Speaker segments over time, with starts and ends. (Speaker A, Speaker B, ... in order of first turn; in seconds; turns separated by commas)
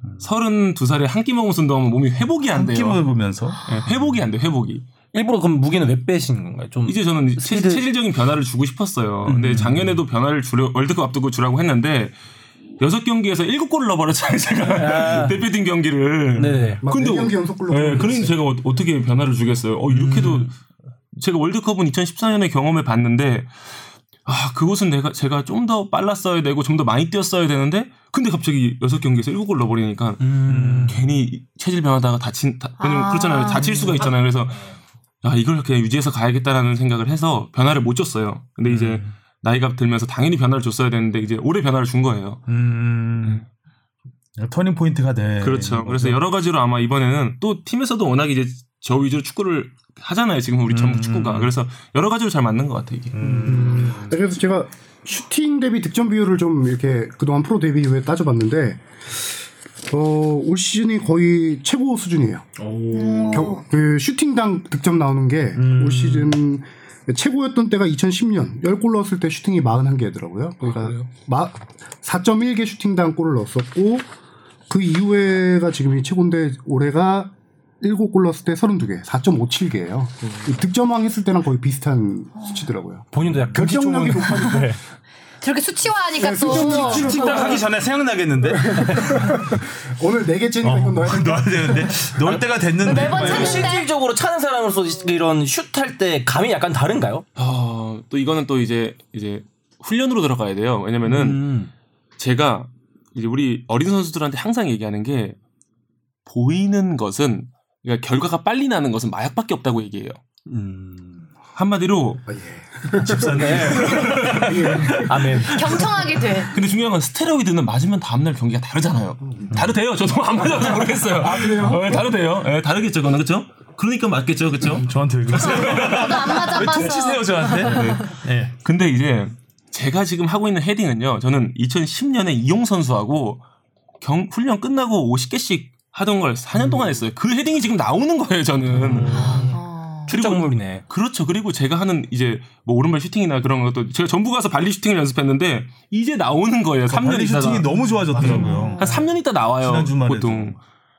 Speaker A: 0.2-3.0, Speaker B: 2.5-3.6, Speaker A: 3.6-4.9, Speaker C: 5.1-7.8, Speaker A: 6.8-12.1, Speaker C: 9.2-9.8, Speaker A: 12.8-20.5, Speaker C: 14.7-15.4, Speaker C: 16.4-16.8, Speaker D: 16.8-18.3, Speaker C: 19.9-20.5, Speaker A: 21.1-23.7, Speaker A: 24.2-34.7, Speaker C: 30.2-31.0, Speaker B: 30.4-31.0, Speaker E: 32.8-34.1, Speaker A: 35.2-42.4, Speaker B: 38.6-39.1, Speaker B: 42.5-43.4, Speaker B: 44.4-46.2, Speaker A: 45.4-53.2, Speaker B: 50.7-51.5, Speaker B: 53.1-54.0, Speaker D: 53.2-59.2, Speaker D: 59.9-62.5, Speaker C: 62.6-63.5, Speaker E: 62.9-63.6, Speaker D: 63.3-74.0, Speaker B: 65.5-66.3, Speaker D: 74.7-84.7, Speaker C: 80.2-80.5, Speaker C: 83.1-84.8, Speaker E: 85.4-87.6, Speaker D: 86.2-87.7, Speaker B: 86.6-89.3, Speaker D: 88.5-92.1, Speaker C: 88.8-89.1, Speaker B: 90.6-93.7, Speaker E: 92.8-93.9, Speaker C: 92.9-97.2, Speaker A: 97.3-101.5, Speaker C: 101.0-101.7, Speaker A: 102.2-105.4, Speaker A: 106.2-110.2, Speaker C: 110.5-111.3, Speaker A: 111.5-112.2, Speaker D: 112.2-115.4, Speaker B: 113.0-115.0, Speaker C: 113.2-115.9, Speaker A: 113.5-115.4, Speaker E: 115.5-116.5, Speaker A: 116.5-126.6, Speaker D: 121.2-122.0, Speaker B: 124.8-128.5, Speaker E: 125.4-128.0, Speaker A: 127.6-133.4, Speaker A: 134.0-139.5, Speaker C: 138.7-140.8, Speaker B: 138.9-139.1, Speaker E: 139.1-140.1, Speaker A: 140.1-150.6, Speaker B: 146.9-149.0, Speaker E: 148.2-149.0, Speaker B: 149.6-150.6